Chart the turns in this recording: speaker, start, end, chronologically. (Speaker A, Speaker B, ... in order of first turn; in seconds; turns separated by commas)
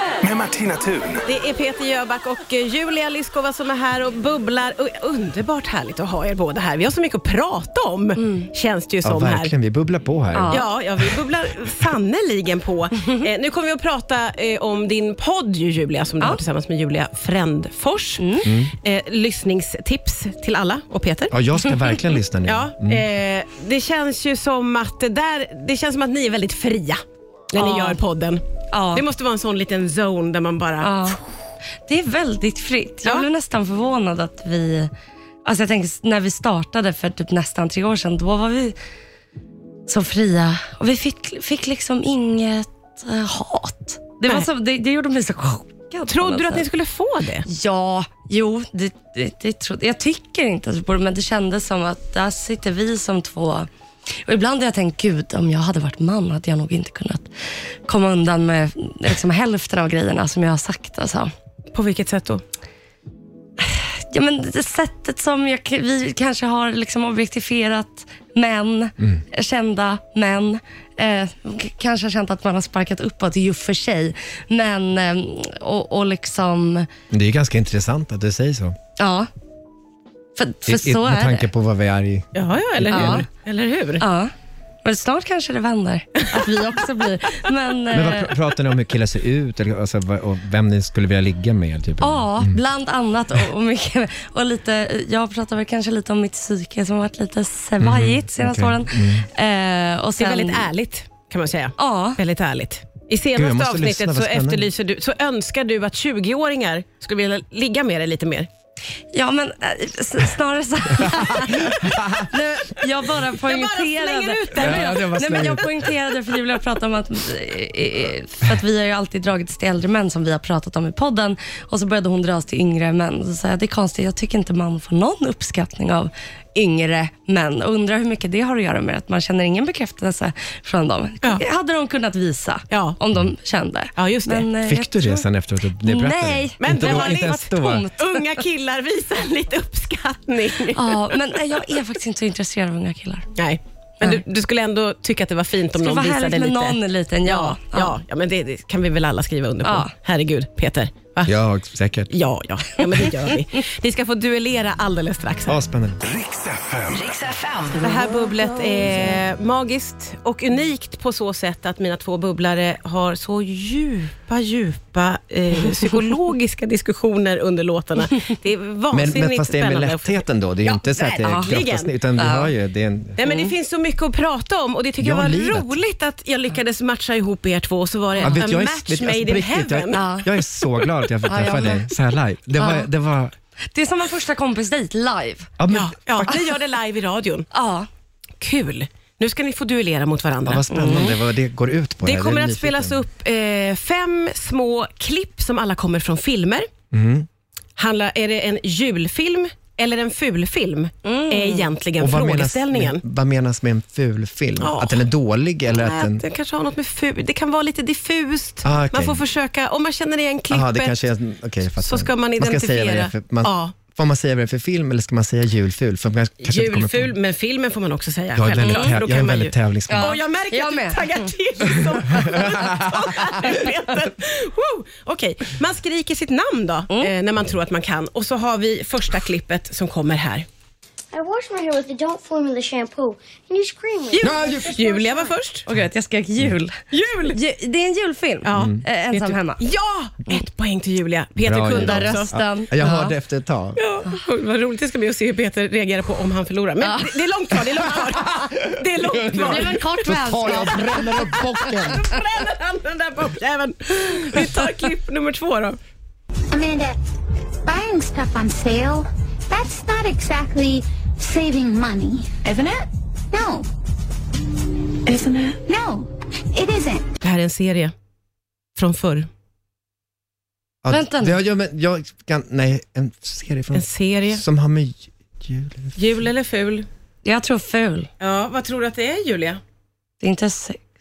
Speaker A: 0.2-1.2, Speaker B: 1.3-9.5, Speaker C: 8.2-8.5, Speaker D: 9.0-10.6, Speaker C: 10.3-10.7, Speaker B: 10.5-21.4, Speaker C: 18.2-18.5, Speaker D: 18.4-18.7, Speaker D: 21.3-23.0, Speaker B: 22.4-28.4, Speaker C: 27.6-28.0, Speaker C: 28.7-29.0, Speaker B: 28.9-31.1, Speaker C: 30.8-31.2, Speaker C: 31.9-34.9, Speaker C: 35.4-38.8, Speaker C: 39.9-46.6, Speaker B: 46.1-47.5, Speaker C: 47.5-53.7, Speaker C: 54.2-57.3, Speaker C: 57.9-61.3, Speaker B: 61.7-62.4, Speaker C: 63.6-76.9, Speaker D: 77.1-78.8, Speaker C: 79.0-79.3, Speaker C: 80.4-81.5, Speaker D: 80.7-83.2, Speaker B: 82.3-84.0, Speaker C: 82.9-83.3, Speaker C: 84.0-84.3, Speaker C: 84.8-88.3, Speaker D: 87.9-92.6, Speaker C: 92.0-100.7, Speaker D: 97.8-99.3, Speaker B: 100.2-108.5, Speaker C: 101.8-102.2, Speaker D: 103.3-104.7, Speaker C: 109.1-135.2, Speaker D: 111.0-112.3, Speaker B: 113.4-115.5, Speaker D: 114.5-115.7, Speaker B: 132.7-133.0, Speaker B: 134.0-134.5, Speaker D: 134.6-137.9, Speaker C: 135.8-138.4, Speaker B: 136.6-141.2, Speaker C: 140.7-143.3, Speaker B: 143.3-151.3, Speaker C: 145.8-148.0, Speaker C: 149.6-149.9, Speaker D: 151.2-152.1, Speaker B: 152.1-155.6, Speaker D: 155.5-156.0, Speaker A: 156.0-157.4, Speaker B: 157.8-171.9, Speaker D: 168.9-173.3, Speaker C: 171.2-171.5, Speaker C: 172.2-172.5, Speaker B: 173.2-180.9, Speaker D: 175.0-175.7, Speaker D: 178.2-183.3, Speaker C: 179.9-180.3, Speaker C: 181.2-181.9, Speaker C: 182.6-182.8, Speaker C: 183.7-185.5, Speaker D: 185.6-186.3, Speaker B: 185.7-187.5, Speaker C: 187.5-187.9, Speaker B: 188.4-191.1, Speaker D: 190.4-193.0, Speaker C: 190.7-191.1, Speaker B: 192.0-196.7, Speaker D: 196.9-197.3, Speaker B: 197.8-203.0, Speaker C: 201.0-201.7, Speaker D: 202.0-206.2, Speaker B: 204.6-205.1, Speaker B: 205.7-211.0, Speaker D: 208.6-209.2, Speaker D: 210.5-217.1, Speaker B: 211.8-213.8, Speaker B: 216.4-230.4, Speaker D: 218.3-220.2, Speaker C: 218.6-218.9, Speaker C: 219.9-221.3, Speaker C: 222.1-222.5, Speaker D: 222.2-223.0, Speaker E: 231.1-234.8, Speaker B: 234.1-235.7, Speaker D: 234.2-234.8, Speaker C: 235.7-236.8, Speaker B: 236.9-237.4, Speaker C: 237.3-239.6, Speaker B: 238.4-242.3, Speaker D: 238.5-238.8, Speaker D: 241.4-243.8, Speaker C: 241.7-243.1, Speaker B: 243.8-255.8, Speaker C: 246.8-247.2, Speaker D: 249.0-252.1, Speaker C: 249.3-251.1, Speaker F: 256.5-257.0, Speaker F: 257.6-263.7, Speaker B: 265.1-265.6, Speaker F: 265.6-267.1, Speaker B: 267.2-267.9, Speaker B: 268.8-269.3, Speaker D: 270.8-276.0, Speaker C: 270.9-271.4, Speaker B: 273.7-274.4, Speaker B: 275.9-276.9, Speaker C: 277.2-278.1, Speaker B: 278.2-279.6, Speaker C: 280.2-280.8